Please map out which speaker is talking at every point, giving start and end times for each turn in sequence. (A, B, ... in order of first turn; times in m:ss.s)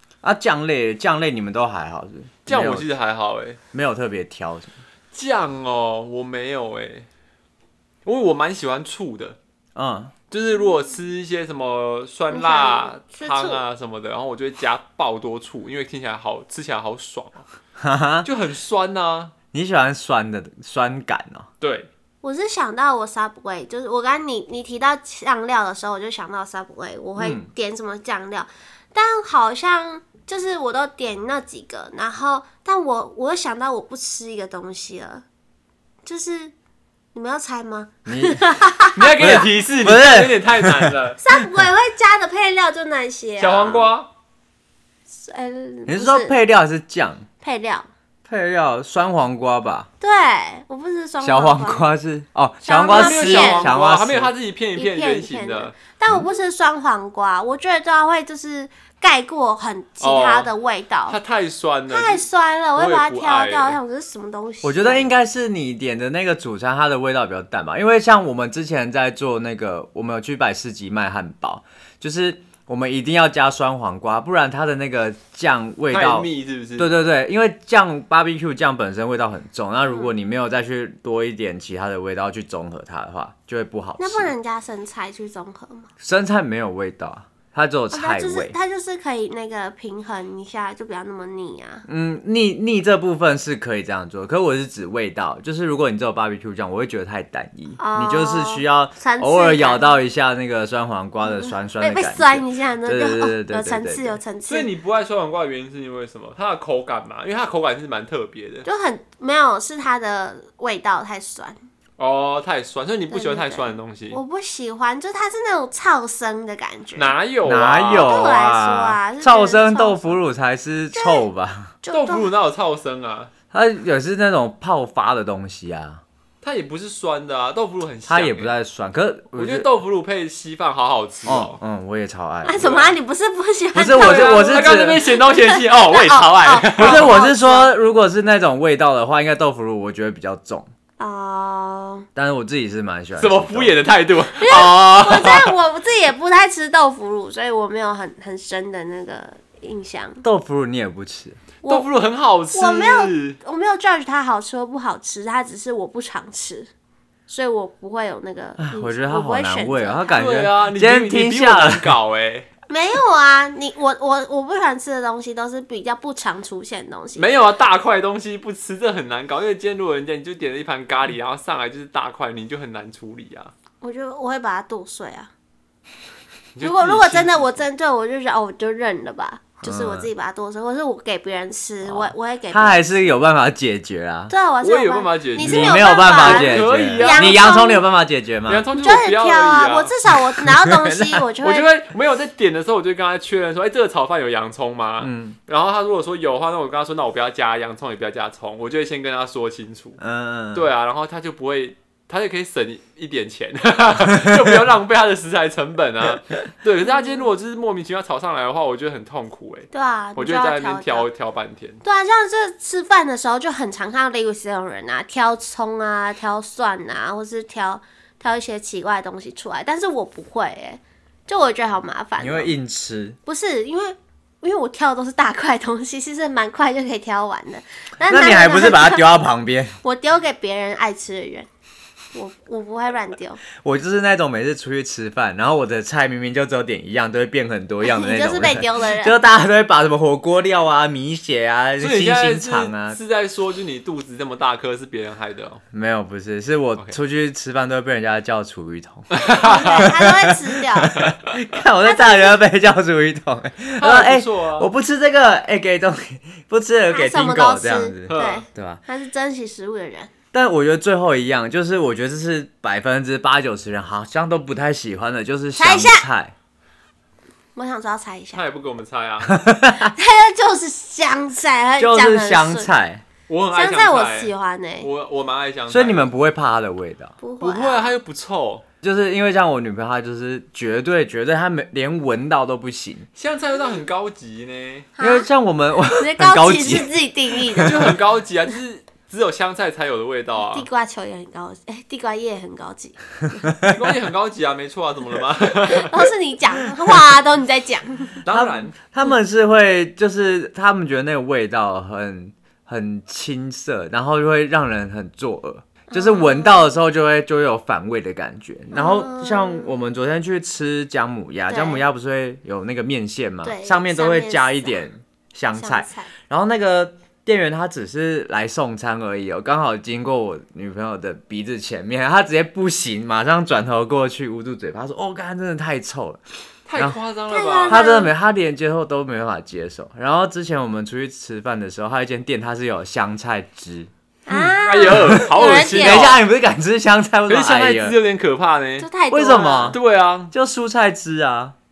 0:00.2-0:02.9 A
0:02.5-0:03.6 B
0:03.7-0:04.7 A
0:05.1-0:07.1 B
0:08.0-0:09.4 B
0:09.8-0:10.2 A
0:10.3-0:17.4 B
0:12.3-0:13.6 C
0:17.8-0:18.3 A
0:18.2-0:19.3 B
0:19.5-0:21.5 A
0:21.6-0:21.9 B
0:22.2-0:35.2 C
0:27.2-0:27.5 A
0:36.0-0:36.5 C
0:37.1-0:39.1 C
0:38.1-0:38.4 A
0:39.0-0:41.2 B
0:39.2-0:40.9 A
0:41.2-0:43.9 C
0:43.4-0:44.1 B
0:45.1-0:46.4 C
0:45.9-0:47.2 A
0:47.4-0:47.9 C
0:48.3-0:49.9 A
0:50.0-0:51.9 C
0:51.2-0:54.3 A
0:52.6-0:53.7 C
0:52.9-0:55.8 B
0:54.8-1:01.2 C
1:00.0-1:00.5 B
1:01.1-1:03.8 B
1:01.9-1:05.1 C
1:04.6-1:24.3 A
1:15.9-1:16.9 B
1:19.9-1:20.1 C
1:24.0-1:25.9 C
1:26.0-1:28.6 A
1:27.9-1:31.9 C
1:31.9-1:44.2 A
1:37.8-1:40.0 C
1:41.3-1:44.7 C
1:44.5-1:48.7 B
1:48.6-1:51.6 C
1:52.0-1:54.2 B
1:53.1-1:57.2 C
1:57.0-1:58.2 B
1:57.4-2:01.8 A
1:57.9-2:00.2 C
2:00.9-2:01.2 C
2:01.8-2:02.3 C
2:01.9-2:03.3 B
2:03.5-2:06.0 A
2:06.4-2:08.5 B
2:08.1-2:09.7 A
2:09.4-2:11.6 B
2:11.3-2:12.7 A
2:12.4-2:17.7 C
2:12.6-2:12.9 B
2:13.7-2:15.0 A
2:14.0-2:17.1 B
2:16.8-2:20.7 A
2:21.0-2:22.1 C
2:22.2-2:23.8 A
2:23.2-2:25.5 B
2:24.4-2:30.2 C
2:30.2-2:31.4 A
2:31.7-2:33.4 B
2:32.5-2:36.7 C
2:37.3-2:40.0 C
2:38.6-2:42.0 A
2:40.1-2:42.5 B
2:42.7-2:47.3 C
2:47.2-2:53.5 B
2:53.8-2:55.3 C
2:56.6-2:57.6 B
2:56.6-3:03.1 C
2:59.6-3:00.1 A
3:01.8-3:04.3 A
3:04.3-3:07.8 C
3:04.6-3:07.4 B
3:05.4-3:08.6 A
3:08.5-3:10.0 B
3:08.7-3:11.7 C
3:10.5-3:11.0 A
3:11.3-3:20.0 B
3:15.0-3:15.4 A
3:20.0-3:20.7 A
3:20.5-3:31.8 B
3:24.1-3:24.5 A
3:26.9-3:27.2 C
3:29.7-3:31.1 C
3:31.8-3:42.5 C
3:42.2-3:43.2 A
3:43.3-3:49.1 C
3:48.1-3:49.8 A
3:49.8-3:51.5 C
3:52.1-3:53.4 C
3:53.6-4:03.0 A
3:57.8-3:59.2 C
4:01.8-4:05.6 B
4:05.7-4:18.8 A
4:09.1-4:09.9 B
4:09.2-4:11.0 C
4:11.8-4:12.4 C
4:13.8-4:14.7 B
4:16.9-4:20.1 C
4:18.1-4:18.4 B
4:20.3-4:26.3 A
4:25.6-4:26.0 C
4:27.6-4:28.4 C
4:28.3-4:29.4 B
4:29.2-4:29.9 A
4:29.9-4:32.7 C
4:31.8-4:33.0 A
4:33.3-4:36.1 B
4:33.5-4:34.9 C
4:35.7-4:37.2 A
4:37.2-4:37.9 C
4:37.4-4:38.6 B
4:38.8-4:43.1 A
4:43.2-4:44.9 B
4:45.0-4:45.3 C
4:45.0-4:47.9 A
4:46.0-4:48.0 C
4:47.6-4:50.7 B
4:50.5-4:53.5 C
4:53.6-4:56.1 B
4:55.7-4:58.2 C
4:58.2-4:58.7 B
4:58.3-5:26.2 A
5:05.9-5:06.7 C
5:08.7-5:09.7 C
5:11.5-5:11.8 C
5:13.4-5:14.8 C
5:15.6-5:16.1 C
5:26.7-5:27.8 B
5:27.3-5:28.1 C
5:27.7-5:38.0 A
5:34.3-5:36.2 C
5:34.6-5:36.2 B
5:37.3-5:38.9 B
5:38.8-5:39.8 C
5:39.1-5:39.8 A
5:39.7-5:40.3 B
5:40.3-5:41.6 A